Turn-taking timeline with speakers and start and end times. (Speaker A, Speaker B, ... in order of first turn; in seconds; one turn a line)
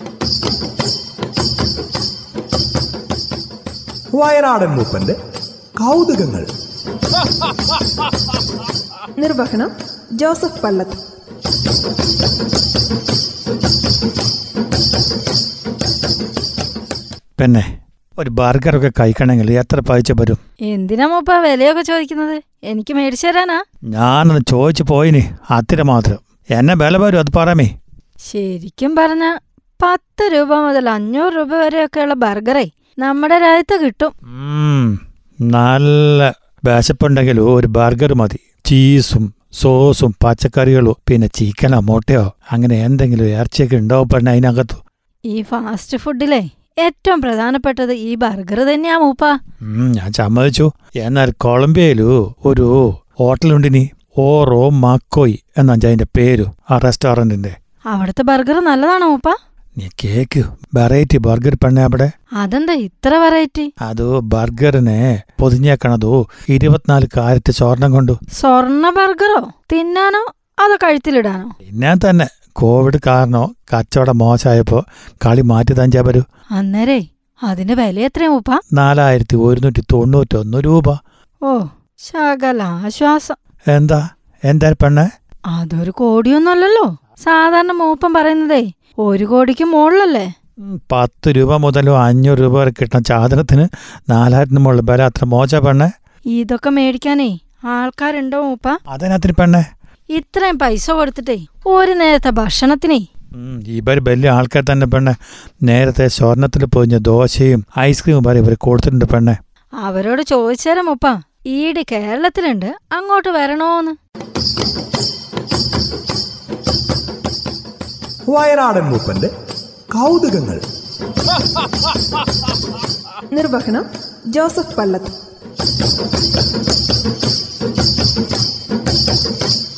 Speaker A: 4.2-5.2
Speaker A: 5.8-6.5
Speaker B: 9.2-11.0
Speaker C: 17.4-17.7
Speaker C: 18.2-20.4
Speaker D: 20.7-23.6
Speaker C: 23.9-27.7
Speaker D: 28.2-34.1
Speaker C: 34.3-44.8
Speaker D: 45.3-49.3
Speaker C: 49.6-57.5
Speaker D: 57.9-59.3
Speaker C: 59.8-62.1
Speaker D: 62.4-63.7
Speaker C: 63.8-68.2
Speaker D: 68.4-71.5
Speaker C: 71.7-76.2
Speaker D: 76.6-78.6
Speaker C: 78.7-81.0
Speaker D: 81.5-83.4
Speaker C: 83.7-85.0
Speaker D: 85.5-90.3
Speaker C: 90.7-95.9
Speaker D: 96.3-98.8
Speaker C: 98.9-99.6
Speaker D: 100.1-103.0
Speaker C: 103.3-105.2
Speaker C: 105.7-109.3
Speaker D: 109.8-114.0
Speaker A: 118.3-119.3
Speaker A: 119.9-120.6
Speaker B: 123.3-125.2